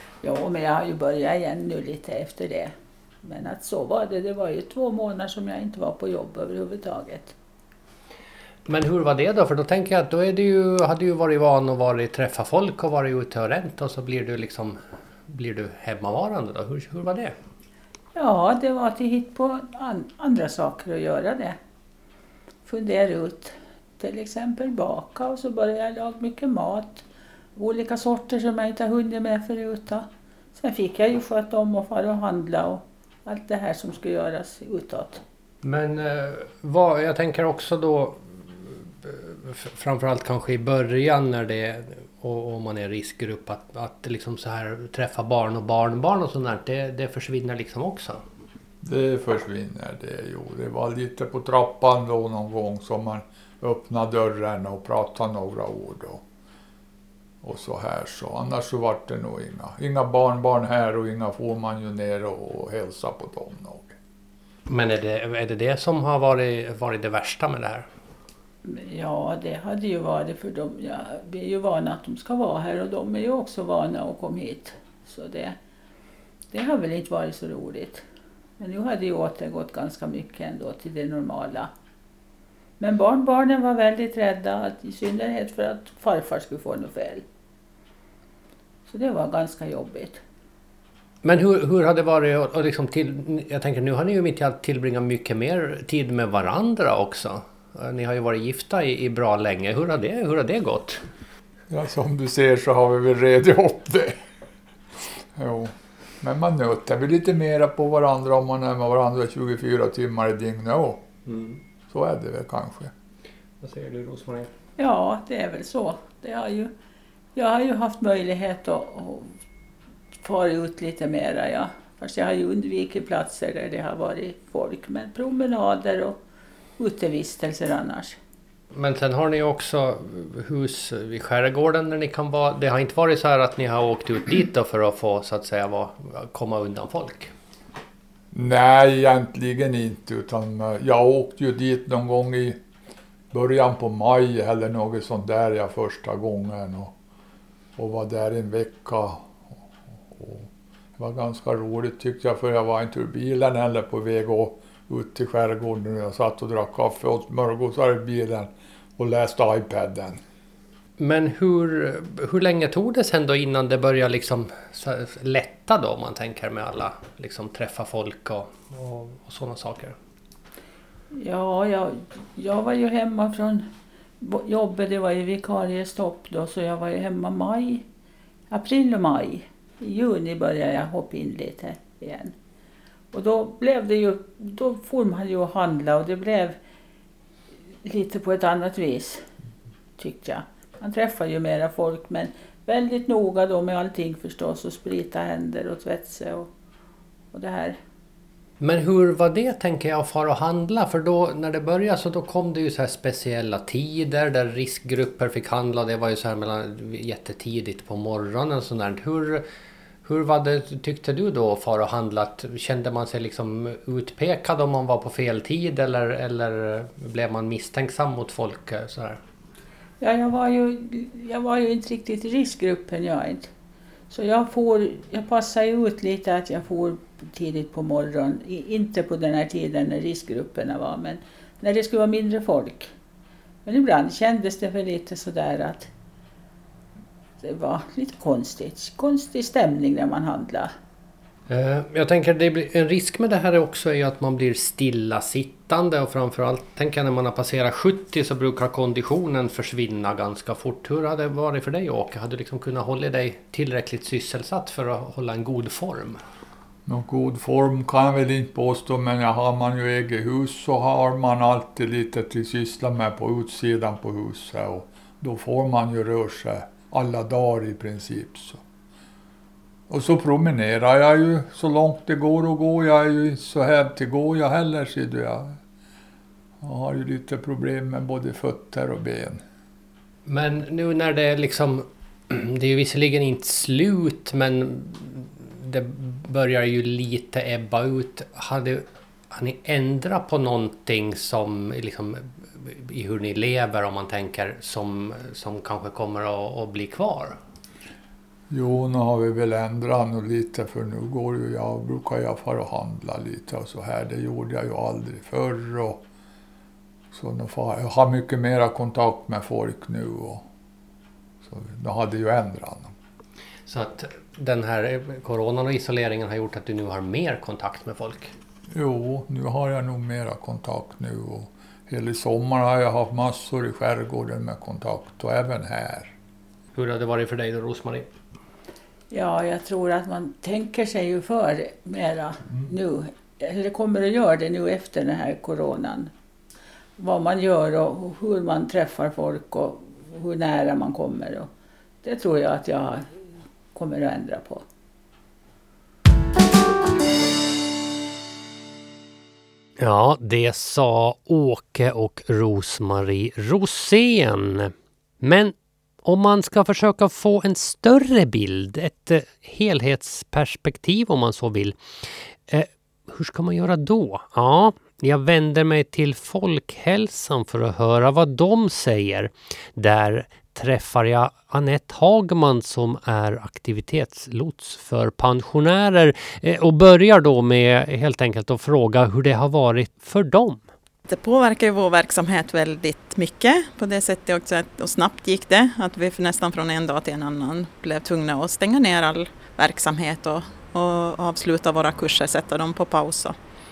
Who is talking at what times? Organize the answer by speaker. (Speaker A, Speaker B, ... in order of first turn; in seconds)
Speaker A: 0.2-7.3, 18.1-21.6, 22.6-27.0, 27.6-35.2, 68.6-75.6, 76.5-78.0, 78.6-81.7, 82.8-87.2, 88.9-90.2, 114.8-116.7, 117.3-119.4, 120.2-126.2, 126.8-128.2, 171.1-173.7, 174.2-177.8, 178.5-182.3, 183.1-186.6, 187.8-189.3, 190.0-196.5, 197.3-197.8, 220.0-223.5, 224.1-232.9, 233.6-235.9, 237.4-240.7, 329.1-336.1, 337.0-341.5, 342.0-343.2, 343.7-344.6
Speaker B: 8.7-14.8, 15.3-17.3, 35.6-48.2, 64.7-67.9, 91.2-101.0, 111.2-111.6, 113.6-114.5, 128.7-137.3, 161.0-169.9, 198.6-209.4, 210.0-219.2, 241.5-256.2, 280.2-297.4, 313.7-318.3, 326.7-328.1, 349.8-380.6
Speaker C: 48.8-56.2, 57.4-63.9, 101.7-104.2, 105.3-111.0, 111.9-112.9, 138.3-142.6, 143.3-146.9, 147.8-149.3, 150.1-160.2, 256.9-268.6, 269.9-275.6, 276.6-279.4, 298.5-306.0, 307.1-310.4, 311.4-312.9, 318.7-326.1
Speaker D: 381.1-393.4